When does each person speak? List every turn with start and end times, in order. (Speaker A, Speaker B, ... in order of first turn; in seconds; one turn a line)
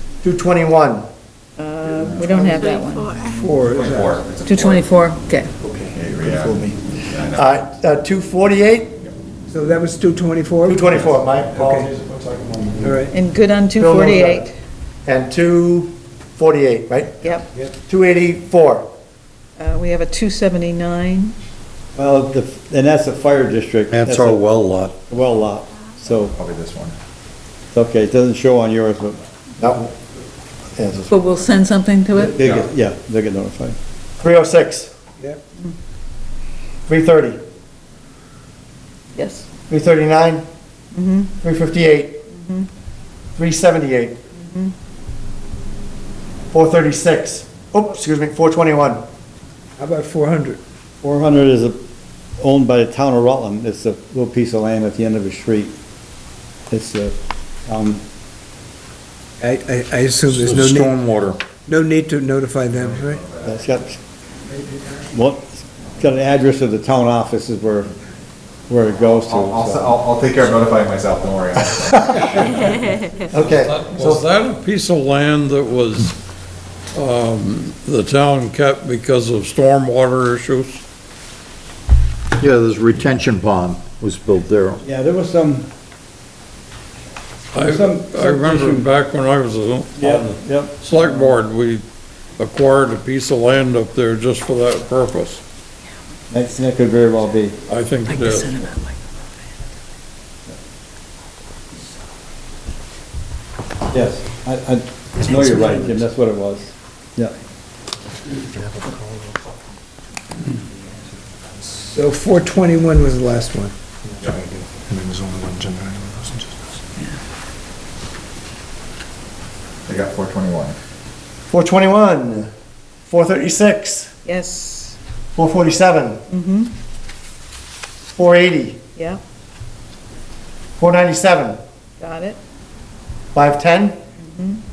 Speaker A: 0.2-1.1
Speaker B: 1.6-3.1
Speaker C: 2.0-2.5
Speaker D: 3.3-4.2
Speaker C: 3.6-4.9
Speaker B: 4.5-5.5
Speaker A: 5.6-9.0
Speaker C: 5.9-7.5
Speaker D: 9.5-11.9
Speaker A: 10.7-13.1
Speaker D: 12.8-13.1
Speaker B: 13.1-14.5
Speaker A: 13.8-14.5
Speaker A: 15.1-18.9
Speaker B: 17.2-17.5
Speaker B: 19.6-21.4
Speaker E: 21.9-24.5
Speaker F: 23.9-24.9
Speaker E: 25.0-26.4
Speaker C: 26.3-26.9
Speaker E: 27.7-29.8
Speaker A: 30.8-31.2
Speaker B: 31.1-32.4
Speaker E: 32.2-33.8
Speaker C: 32.4-32.7
Speaker A: 34.2-34.9
Speaker A: 36.9-37.4
Speaker B: 39.1-39.5
Speaker A: 39.7-40.5
Speaker B: 40.9-41.3
Speaker A: 41.4-42.2
Speaker B: 42.3-42.7
Speaker A: 43.4-44.2
Speaker B: 44.3-44.7
Speaker A: 46.5-49.0
Speaker D: 49.8-50.6
Speaker E: 51.0-51.8
Speaker E: 52.4-55.7
Speaker E: 56.7-57.1
Speaker E: 57.7-58.0
Speaker D: 59.4-61.1
Speaker F: 60.3-61.4
Speaker D: 61.7-63.2
Speaker C: 62.7-63.7
Speaker E: 63.4-64.0
Speaker E: 65.0-67.9
Speaker E: 68.7-70.0
Speaker C: 69.1-72.8
Speaker A: 73.3-74.2
Speaker G: 73.3-76.2
Speaker G: 76.9-80.8
Speaker F: 82.4-84.8
Speaker E: 84.8-85.7
Speaker G: 87.5-91.8
Speaker E: 87.6-88.9
Speaker E: 90.0-91.4
Speaker G: 92.4-95.4
Speaker E: 96.3-97.6
Speaker G: 97.7-98.6
Speaker B: 98.1-99.0
Speaker E: 103.9-107.3
Speaker D: 108.6-109.0
Speaker D: 111.7-113.7
Speaker D: 114.2-116.5
Speaker C: 119.9-120.8
Speaker A: 121.5-122.5
Speaker A: 123.0-124.1
Speaker B: 124.2-125.0
Speaker A: 125.4-126.2
Speaker B: 126.3-126.7
Speaker A: 128.1-128.8
Speaker B: 129.0-129.2
Speaker A: 130.8-131.6
Speaker B: 132.0-132.4
Speaker A: 133.3-134.0
Speaker B: 134.2-134.6